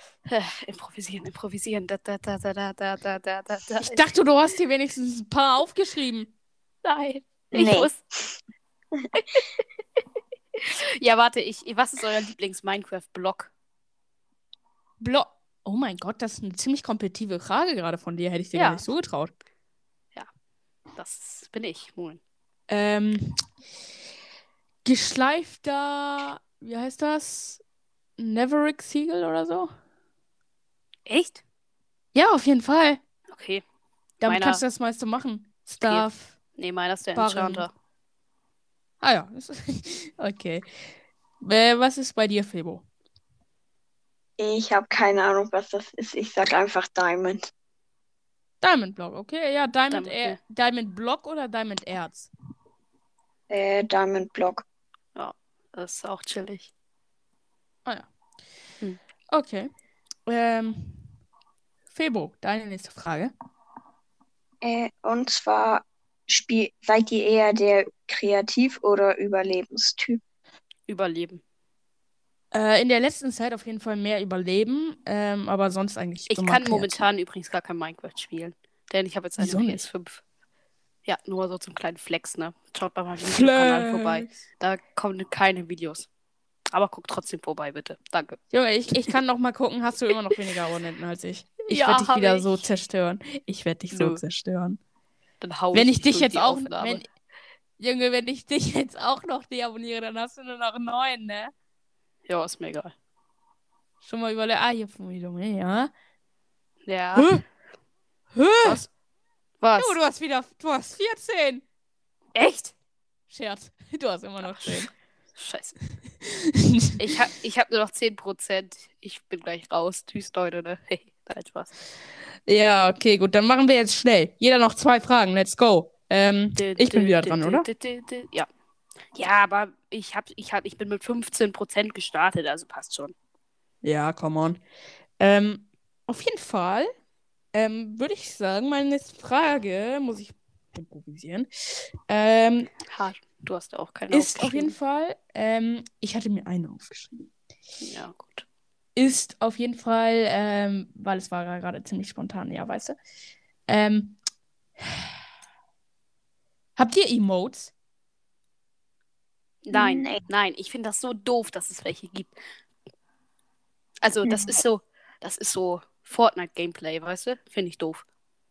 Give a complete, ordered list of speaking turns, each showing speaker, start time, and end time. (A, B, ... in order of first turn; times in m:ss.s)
0:00.3-0:04.0 A
0:03.8-0:06.3 B
0:06.8-0:08.0 A
0:07.5-0:07.9 C
0:10.6-0:13.5 A
0:15.0-0:19.3 B
0:18.5-0:18.8 A
0:21.0-0:22.2 A
0:22.7-0:23.4 B
0:24.8-0:27.6 B
0:28.2-0:29.7 B
0:31.1-0:31.4 A
0:32.2-0:33.0 B
0:33.3-0:33.6 A
0:34.2-0:36.4 B
0:34.2-0:34.6 A
0:35.8-0:37.7 A
0:37.2-0:37.7 B
0:39.0-0:40.7 B
0:41.4-0:42.8 B
0:44.4-0:47.5 C
0:48.6-0:52.3 B
0:49.9-0:50.4 A
0:53.5-0:54.6 C
0:55.2-0:56.7 A
0:59.3-0:59.7 B
1:00.3-1:01.0 B
1:01.9-1:03.3 B
1:04.6-1:10.2 C
1:10.9-1:11.4 A
1:12.5-1:17.1 B
1:16.3-1:20.2 A
1:19.4-1:19.8 B
1:21.0-1:26.1 A
1:23.2-1:24.3 B
1:26.7-1:28.4 A
1:28.5-1:34.8 B
1:31.7-1:32.7 A
1:33.9-1:34.2 A
1:35.4-1:37.0 A
1:35.7-1:37.1 B
1:37.8-1:41.5 B
1:42.3-1:42.9 A
1:44.0-1:45.9 B
1:46.9-1:47.3 A
1:47.2-1:47.4 B
1:48.4-1:48.8 B
1:49.6-1:50.0 A
1:49.8-1:51.6 B
1:52.4-1:52.7 A
1:53.3-1:54.9 B
1:54.4-1:55.8 A
1:56.2-1:57.1 B
1:57.0-2:01.7 A
2:02.5-2:07.7 B
2:06.6-2:08.5 A
2:09.1-2:13.1 A
2:13.8-2:14.6 B
2:15.2-2:16.9 B
2:17.5-2:22.7 B
2:22.9-2:24.7 A
2:24.1-2:27.3 B
2:27.8-2:28.4 A
2:29.0-2:33.0 B
2:33.7-2:34.2 B
2:36.8-2:37.7 B
2:39.6-2:42.3 A
2:39.7-2:40.2 C
2:44.0-2:48.0 A
2:44.2-2:44.6 C